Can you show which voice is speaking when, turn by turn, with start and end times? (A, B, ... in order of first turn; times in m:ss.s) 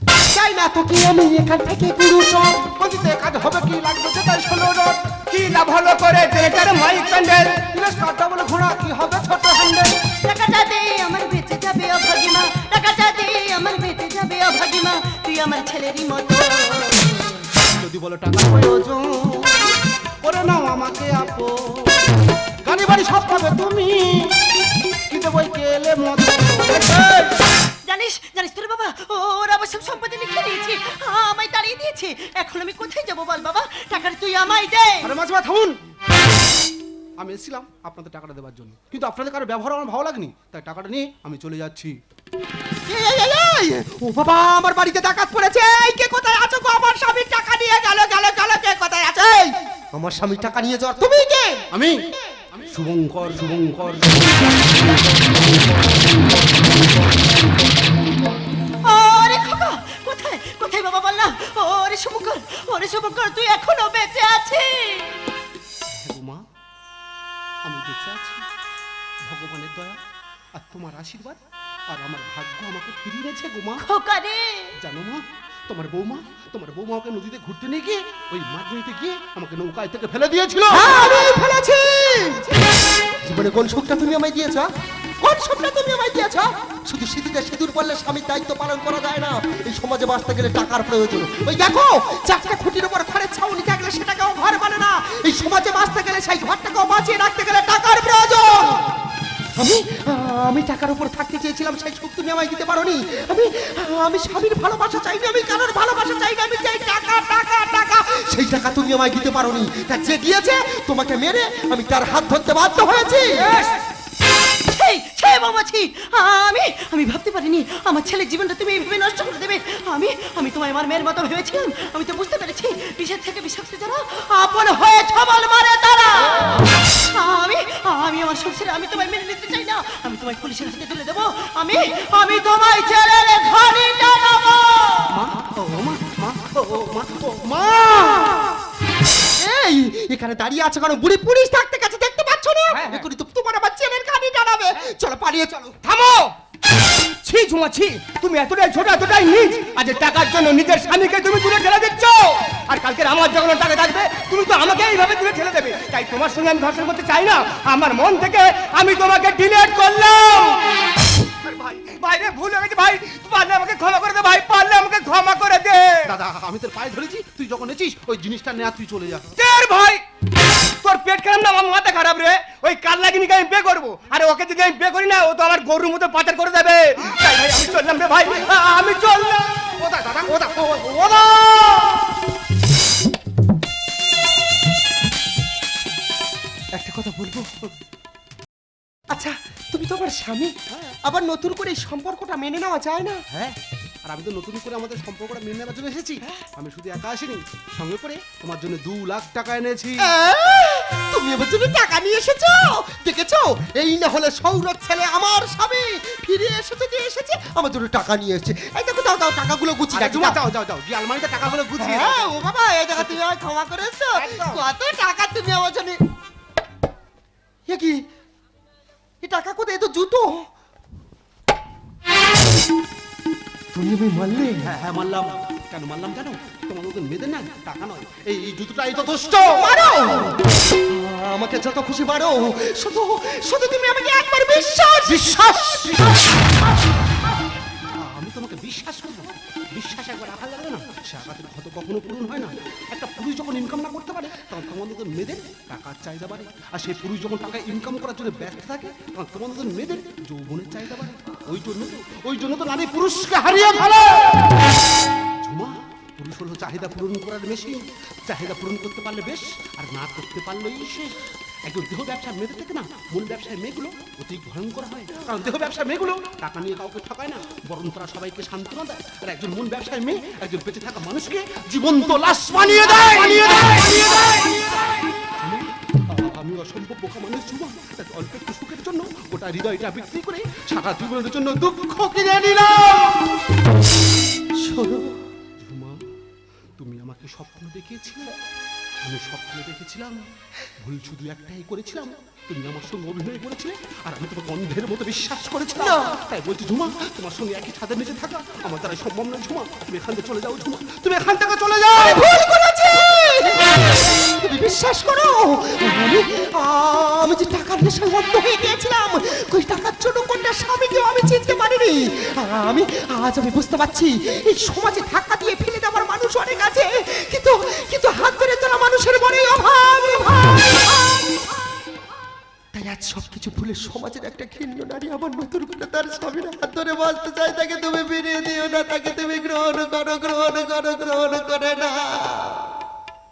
0:00.2-0:02.7 A
0:02.8-0:05.0 B
0:05.3-0:07.6 C
0:07.6-0:10.0 B
0:10.2-0:17.3 D
0:17.8-0:22.0 B
0:22.6-0:24.4 B
0:25.1-0:27.3 B
0:27.8-0:35.1 D
0:35.0-0:35.8 B
0:37.2-0:42.0 B
0:42.9-0:51.7 A
0:51.7-0:55.3 B
0:58.8-1:05.2 D
1:05.9-1:06.4 B
1:07.6-1:08.4 B
1:09.2-1:10.0 B
1:10.5-1:13.8 B
1:13.8-1:14.8 D
1:14.8-1:21.0 B
1:20.7-1:22.6 A
1:23.2-1:24.7 A
1:25.2-1:38.9 A
1:39.6-1:53.5 A
1:53.3-1:53.8 C
1:54.6-2:15.2 D
2:15.1-2:18.5 B
2:19.4-2:25.8 A
2:22.7-2:23.0 C
2:25.8-2:26.3 C
2:27.2-2:40.7 C
2:41.4-2:46.1 C
2:46.1-2:49.3 B
2:49.4-2:50.0 C
2:50.8-2:59.8 C
2:58.2-2:58.6 B
2:59.8-3:02.0 B
3:06.7-3:07.6 A
3:09.1-3:13.2 A
3:10.7-3:11.0 B
3:13.3-3:20.1 B
3:20.0-3:30.4 A
3:29.9-3:32.3 B
3:31.8-3:36.0 A
3:34.1-3:34.6 B
3:37.7-3:38.0 A
3:39.2-3:40.5 A
3:43.7-3:44.8 A
3:44.6-3:49.7 B
3:49.5-3:56.1 A
3:55.1-3:56.4 B
3:58.0-4:14.6 B
4:15.4-4:34.6 B
4:35.4-4:43.4 B
4:44.6-4:45.2 A
4:45.6-4:46.0 B
4:46.8-4:48.3 B
4:49.0-4:50.2 B
4:50.8-5:02.2 B
4:55.8-4:56.2 A
5:01.9-5:21.4 A
5:22.7-5:32.7 A